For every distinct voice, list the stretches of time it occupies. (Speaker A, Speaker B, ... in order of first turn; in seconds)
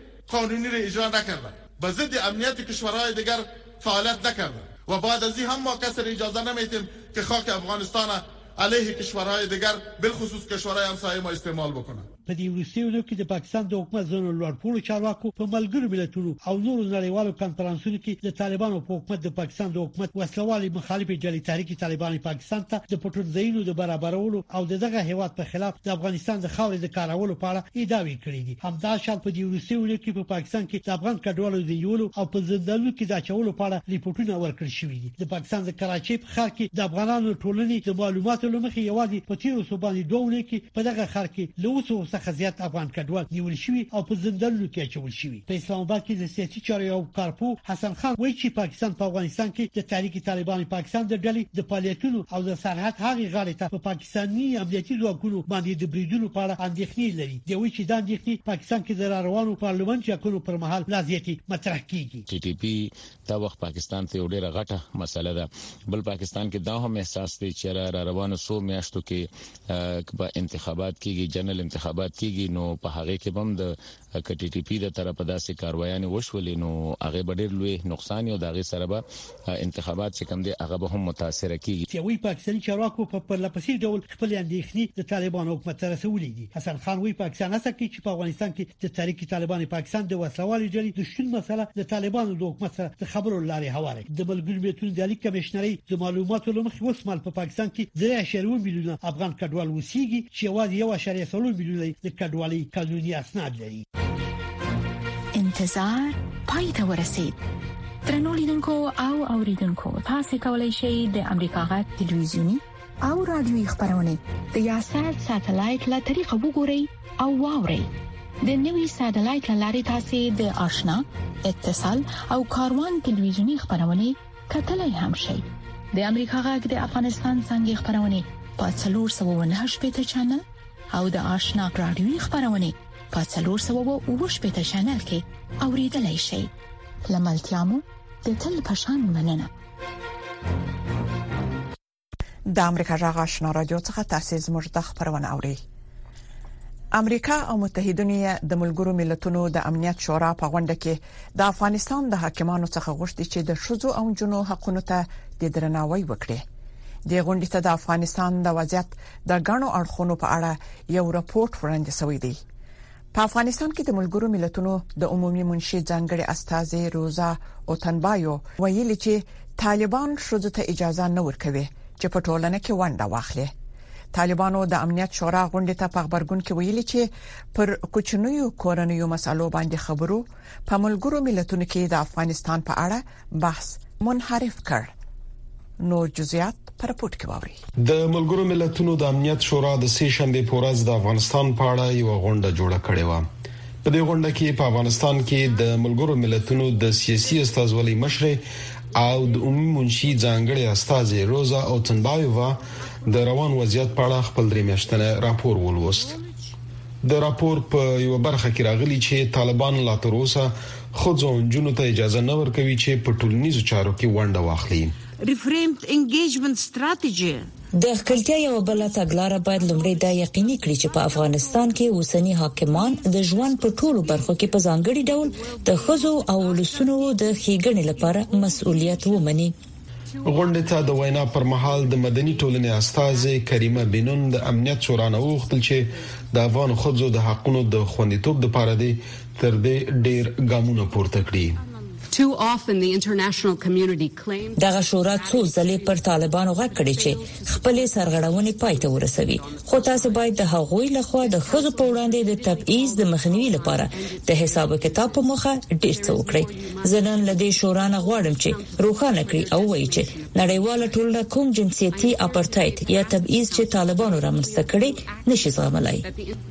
Speaker A: 0.3-12.1
Speaker B: 12.2-62.2, 81.9-103.8
Speaker C: 62.3-81.8
Speaker D: 105.3-107.4, 108.0-117.9, 118.4-136.5, 137.1-139.5
Speaker E: 142.5-145.6, 146.9-156.4, 157.1-162.4, 163.1-173.5, 174.1-184.9, 185.8-187.6
Speaker F: 187.8-193.3, 193.8-198.4, 198.9-206.2, 207.0-214.9, 230.2-241.6
Speaker G: 215.2-217.5, 242.1-244.5
Speaker H: 217.8-229.5, 244.6-266.1